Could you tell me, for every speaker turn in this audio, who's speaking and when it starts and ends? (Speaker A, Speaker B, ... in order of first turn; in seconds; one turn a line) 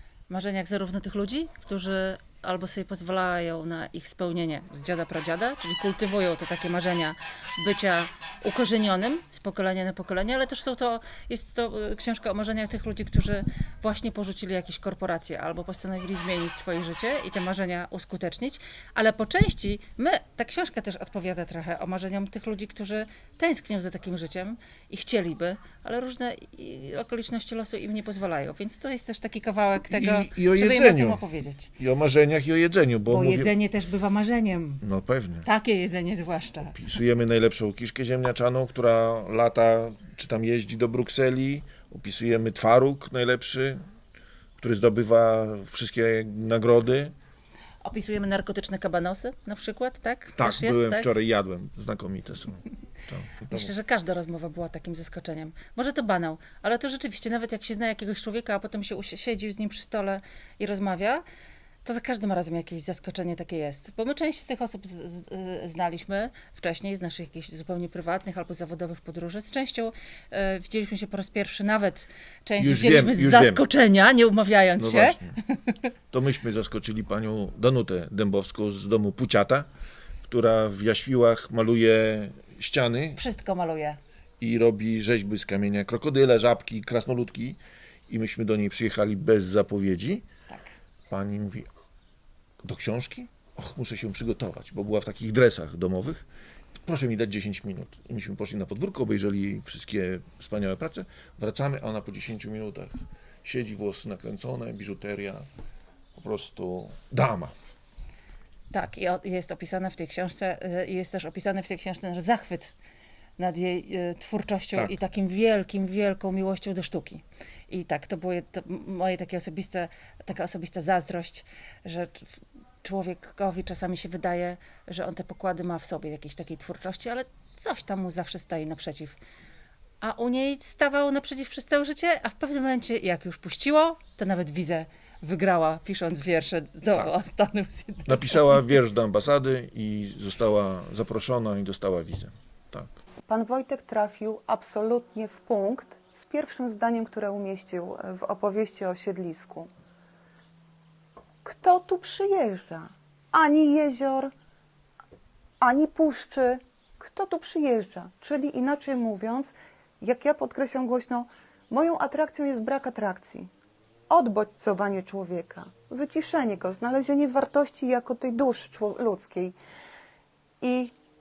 Speaker A: 0.3-31.7
Speaker B: 29.9-31.2
Speaker B: 31.8-33.5
Speaker A: 33.1-34.8
Speaker B: 34.8-35.5
Speaker A: 35.4-36.8
Speaker B: 36.7-43.8
Speaker B: 44.6-47.1
Speaker A: 47.8-51.1
Speaker B: 50.4-53.7
Speaker A: 53.5-61.2
Speaker A: 61.8-75.9
Speaker B: 72.6-73.6
Speaker B: 74.8-75.3
Speaker B: 76.1-79.7
Speaker B: 80.3-83.2
Speaker A: 83.2-84.0
Speaker B: 84.4-87.6
Speaker B: 88.1-90.2
Speaker A: 90.5-90.7
Speaker B: 91.1-91.7
Speaker B: 92.6-96.2
Speaker B: 96.8-105.5
Speaker B: 106.2-107.5
Speaker A: 108.7-112.7
Speaker A: 113.4-129.2
Speaker A: 130.0-138.6
Speaker B: 138.1-142.9
Speaker C: 143.3-149.7
Speaker C: 151.4-154.3
Speaker C: 155.6-163.5
Speaker C: 164.1-169.6
Speaker C: 170.6-170.9